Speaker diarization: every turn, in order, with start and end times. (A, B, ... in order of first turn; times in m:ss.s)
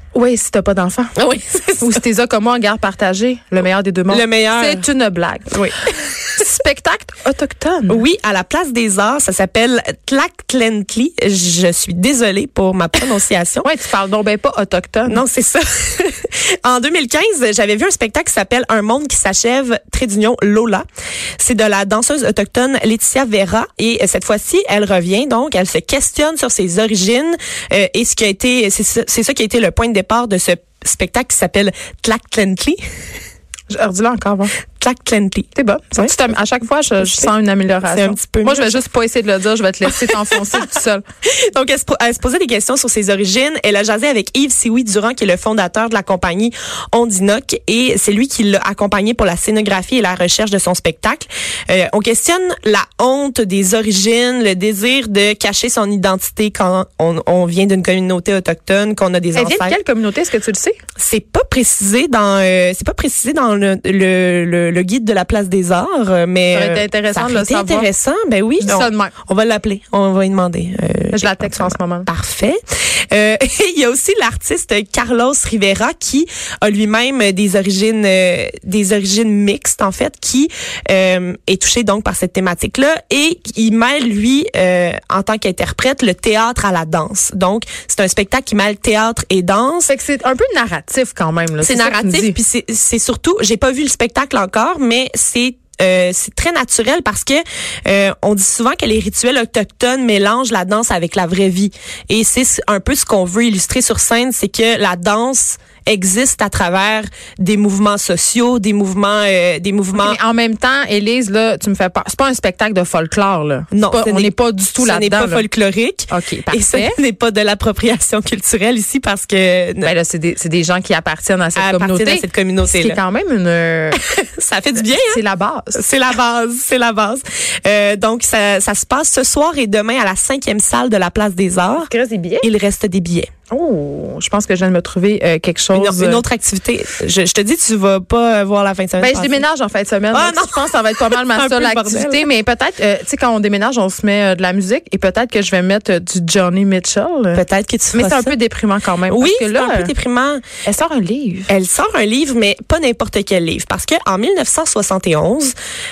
0:00.1-0:01.1 A
0:01.2-0:02.0 B
0:01.8-0:05.6 A
0:04.1-0:04.8 B
0:05.5-0:06.3 B
0:06.4-0:08.0 A
0:07.9-0:13.7 B
0:13.6-0:15.2 A
0:15.1-0:20.8 B
0:21.4-0:32.8 B
0:33.7-0:34.5 A
0:34.8-0:36.1 B
0:35.5-0:41.0 A
0:37.0-0:37.3 B
0:37.8-0:38.8 B
0:39.8-0:40.4 B
0:41.2-0:59.8 B
0:59.3-1:00.8 A
1:01.0-1:12.6 B
1:06.5-1:07.9 A
1:08.6-1:09.1 A
1:11.1-1:12.1 A
1:13.1-1:29.9 B
1:29.8-1:32.4 A
1:31.6-1:50.2 B
1:49.9-1:55.5 A
1:53.7-1:59.9 B
1:56.1-1:57.0 A
1:59.8-2:04.0 A
2:01.6-2:03.0 B
2:03.9-2:05.2 B
2:04.8-2:05.8 A
2:05.7-2:11.9 B
2:11.8-2:12.5 A
2:12.4-2:13.3 B
2:13.5-2:16.2 A
2:15.7-2:19.4 B
2:19.0-2:29.9 A
2:20.1-2:22.2 B
2:27.3-2:28.4 B
2:29.1-2:30.4 B
2:30.6-2:31.5 A
2:31.5-2:35.5 B